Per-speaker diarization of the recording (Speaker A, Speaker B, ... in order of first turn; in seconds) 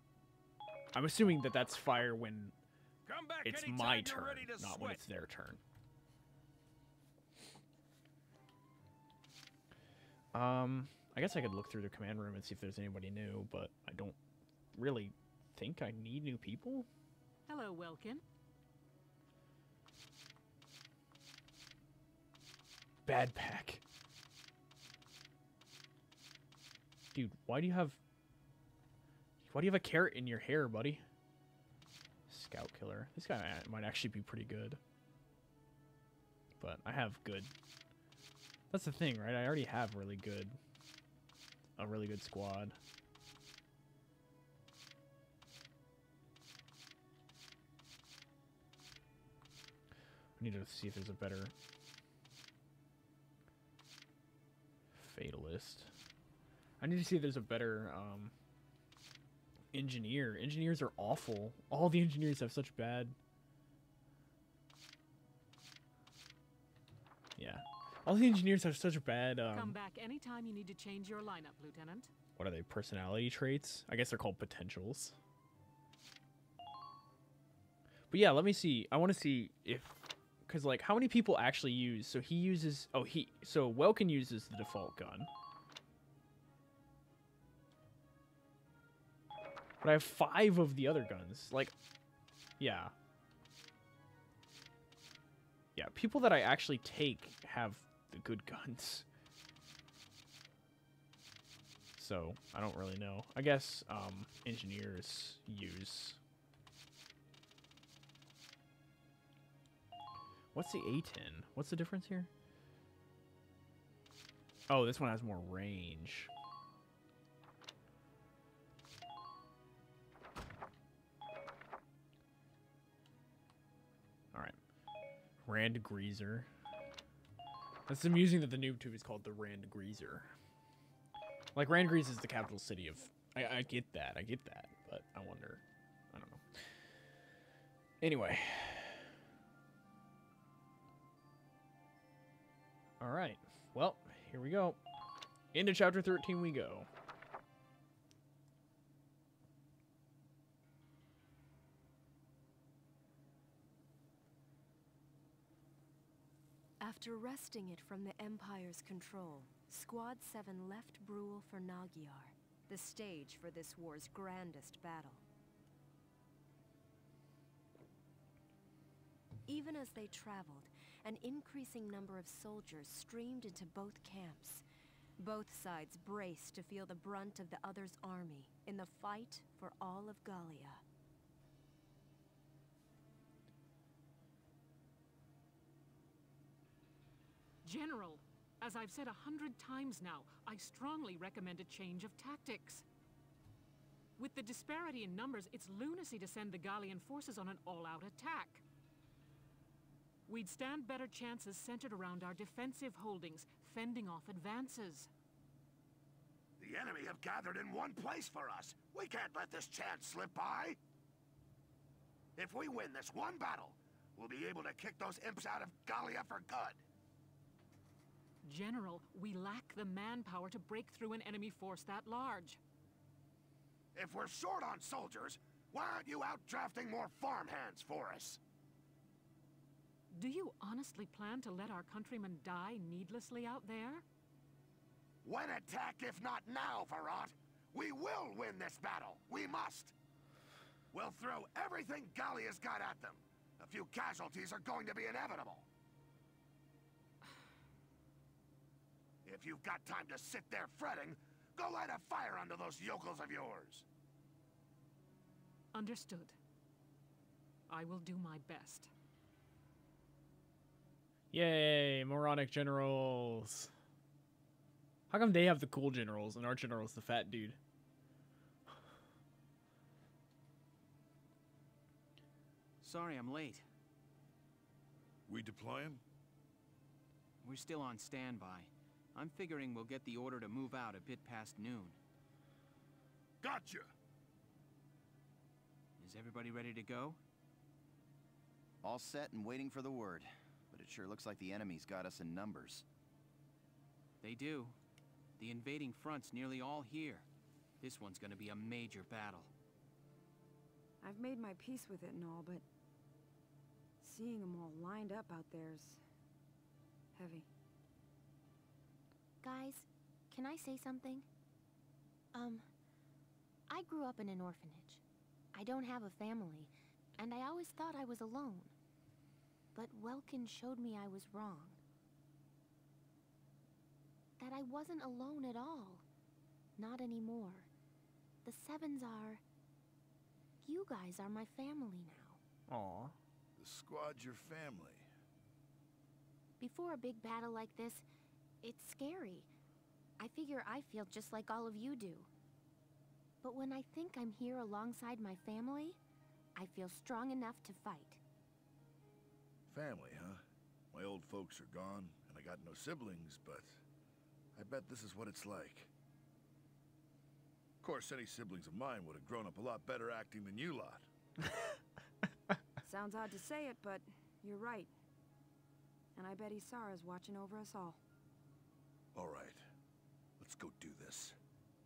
Speaker A: 0.9-2.5, 3.4-5.6, 10.3-14.2, 14.7-16.9, 23.1-23.8, 27.1-28.0, 29.4-31.0, 32.3-34.8, 36.6-37.5, 38.7-40.6, 41.8-42.8, 50.4-51.5, 54.9-55.9, 56.8-58.3, 59.7-63.1, 67.4-69.8, 72.3-75.2, 78.1-85.3, 89.8-91.7, 92.6-92.9, 95.8-99.0, 102.0-106.2, 110.5-112.3, 114.7-116.3, 125.4-126.5, 127.9-130.3, 131.5-136.4, 138.0-139.1, 143.0-144.8, 145.5-146.9, 261.3-263.7, 265.1-267.6, 332.7-333.1
Speaker B: 3.0-5.0
Speaker C: 17.5-18.2, 69.5-72.1, 187.6-192.8, 194.2-198.6, 200.3-205.1, 218.4-222.6, 230.1-234.0, 255.7-256.4, 257.7-258.9
Speaker D: 156.8-165.2, 169.5-174.6, 175.2-180.8
Speaker E: 206.6-210.8, 212.3-216.8, 223.9-228.4, 235.2-239.9, 240.9-245.7, 249.2-253.8, 283.4-283.9
Speaker F: 272.8-273.6, 277.4-282.0, 286.0-287.2, 294.2-294.8, 295.4-297.2, 297.8-299.5
Speaker G: 275.3-276.0, 333.6-335.1, 349.7-353.8, 354.6-355.9, 357.8-361.1, 369.1-369.6, 370.4-371.4
Speaker H: 288.8-292.8
Speaker I: 301.0-302.6, 304.0-306.0, 307.1-307.5, 362.8-364.9, 366.1-368.0
Speaker J: 309.4-311.3, 312.3-312.6, 313.7-315.0, 315.5-318.7, 319.7-321.8, 324.4-326.0, 326.8-327.7, 328.4-329.4, 330.6-332.4, 336.6-338.0, 338.6-339.5, 340.2-342.3, 343.4-346.0, 346.6-348.2